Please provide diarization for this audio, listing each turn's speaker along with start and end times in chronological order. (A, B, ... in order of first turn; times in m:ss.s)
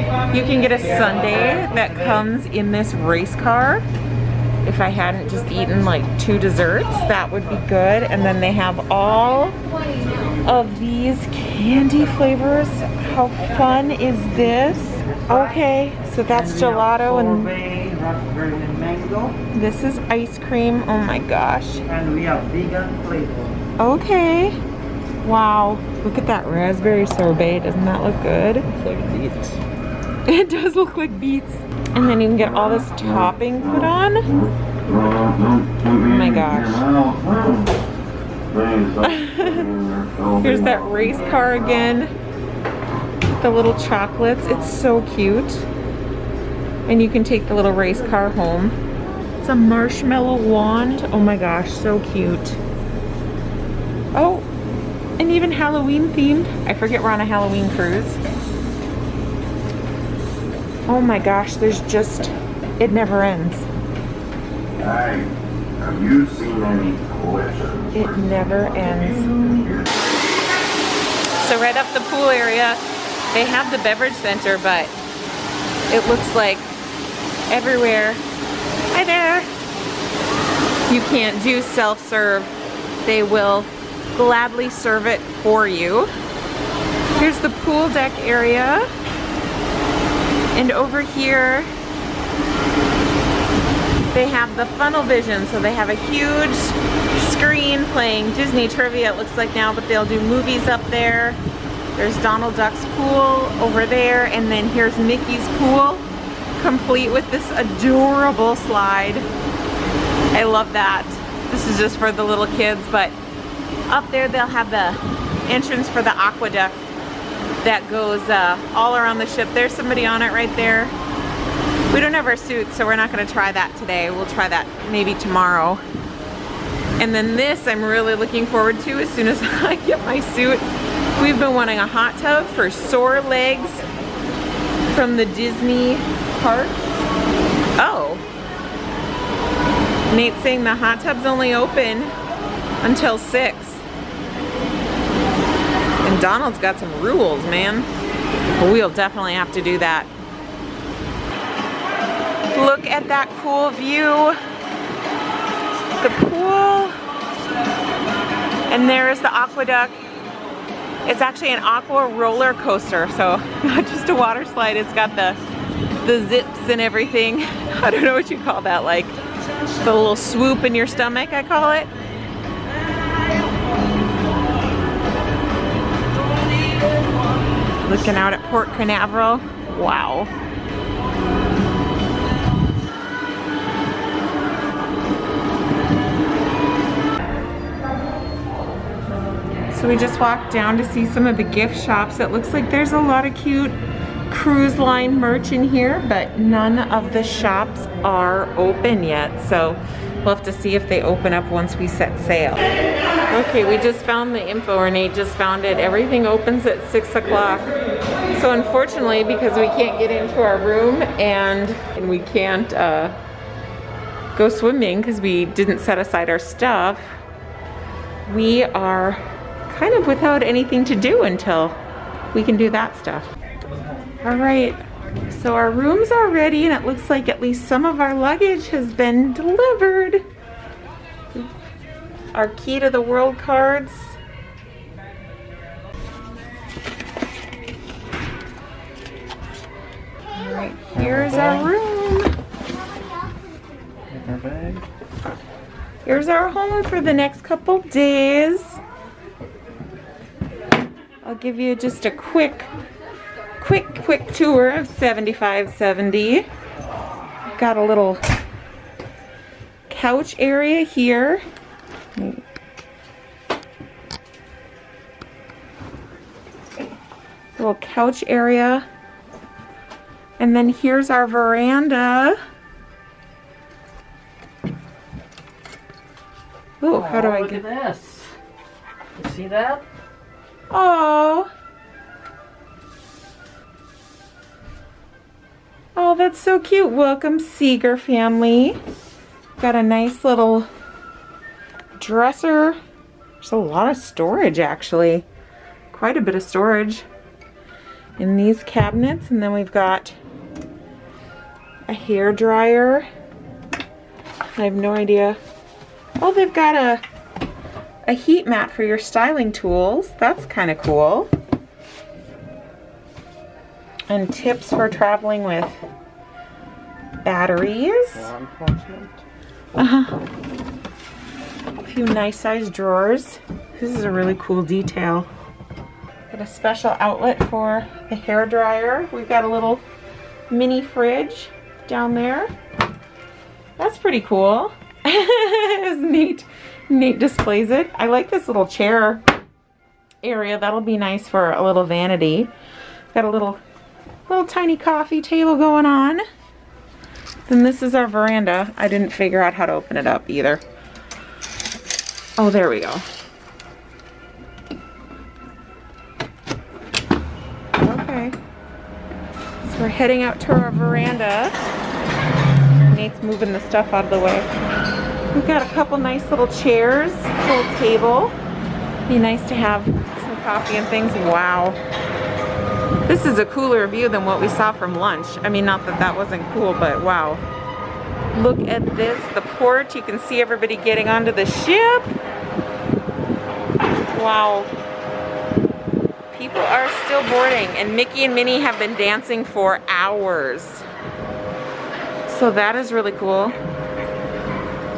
0:00.3-0:03.8 A
0:04.6-0:09.6 A
0:10.4-0:17.5 A
0:15.0-0:15.7 B
0:16.2-0:19.4 B
0:19.5-0:21.8 A
0:21.9-0:23.6 B
0:23.8-0:24.6 A
0:25.2-0:28.7 A
0:28.6-0:29.6 C
0:30.3-0:34.3 A
0:32.0-0:37.8 D
0:36.0-0:36.8 A
0:38.5-0:41.7 D
0:39.0-0:39.7 A
0:40.4-0:42.1 A
0:43.4-0:45.7 A
0:46.9-0:48.8 A
0:49.4-0:52.6 A
0:54.1-0:54.5 A
0:55.2-0:58.2 A
1:00.9-1:03.7 A
1:04.8-1:10.0 D
1:07.9-1:09.7 A
1:11.4-1:12.8 A
1:13.3-1:15.0 A
1:15.9-1:16.7 A
1:17.5-1:18.2 A
1:18.9-1:19.5 A
1:20.9-1:22.5 A
1:23.0-1:26.1 A
1:27.2-1:28.9 A
1:30.6-1:31.7 A
1:34.1-1:41.4 A
1:42.0-1:46.0 A
1:46.6-1:49.3 A
1:50.3-1:53.2 A
1:53.9-1:56.8 A
1:57.6-2:00.9 A
2:01.9-2:05.8 A
2:07.0-2:10.6 A
2:11.2-2:13.8 A
2:14.9-2:17.0 A
2:17.8-2:18.2 A
2:20.1-2:22.1 A
2:22.8-2:23.8 A
2:26.0-2:27.9 A
2:28.6-2:30.1 A
2:32.5-2:34.4 A
2:36.0-2:37.0 A
2:38.7-2:40.0 A
2:41.0-2:45.4 A
2:46.0-2:49.2 A
2:49.8-2:51.9 A
2:57.8-3:00.3 A
3:09.7-3:13.8 A
3:14.3-3:22.7 A
3:23.3-3:27.7 A
3:28.3-3:33.2 A
3:34.4-3:37.2 A
3:38.3-3:41.8 A
3:42.3-3:43.3 A
3:44.2-3:50.2 A
3:52.3-3:54.2 A
4:00.4-4:02.3 A
4:01.0-4:01.7 C
4:04.1-4:04.8 C
4:06.1-4:08.8 A
4:11.2-4:12.7 A
4:13.6-4:16.5 A
4:17.6-4:18.2 A
4:19.9-4:21.4 A
4:22.2-4:22.4 A
4:27.6-4:28.9 A
4:30.4-4:32.4 A
4:36.8-4:37.6 A
4:36.9-4:38.3 B
4:39.2-4:39.8 B
4:40.7-4:41.5 A
4:46.0-4:48.8 A
4:49.6-4:50.7 A
4:52.0-4:52.8 A
4:53.4-4:55.3 A
4:55.9-4:57.0 A
4:58.2-5:00.2 A
5:01.9-5:03.1 A
5:04.6-5:05.4 A
5:06.2-5:07.0 A
5:08.0-5:11.3 A
5:14.1-5:15.8 A
5:17.2-5:18.3 A
5:18.2-5:19.1 B
5:19.8-5:20.2 A
5:21.8-5:25.3 A
5:26.3-5:29.8 A
5:30.5-5:32.5 A
5:33.8-5:39.2 A
5:40.2-5:42.5 A
5:43.1-5:43.6 A
5:44.3-5:46.2 A
5:47.5-5:50.6 A
5:52.4-5:53.0 A
5:57.8-5:58.4 A
5:59.6-6:01.6 A
6:02.9-6:04.5 A
6:05.3-6:08.4 A
6:09.1-6:11.8 A
6:13.1-6:17.4 A
6:18.3-6:22.1 A
6:24.1-6:24.7 A
6:26.3-6:30.8 A
6:32.3-6:33.6 A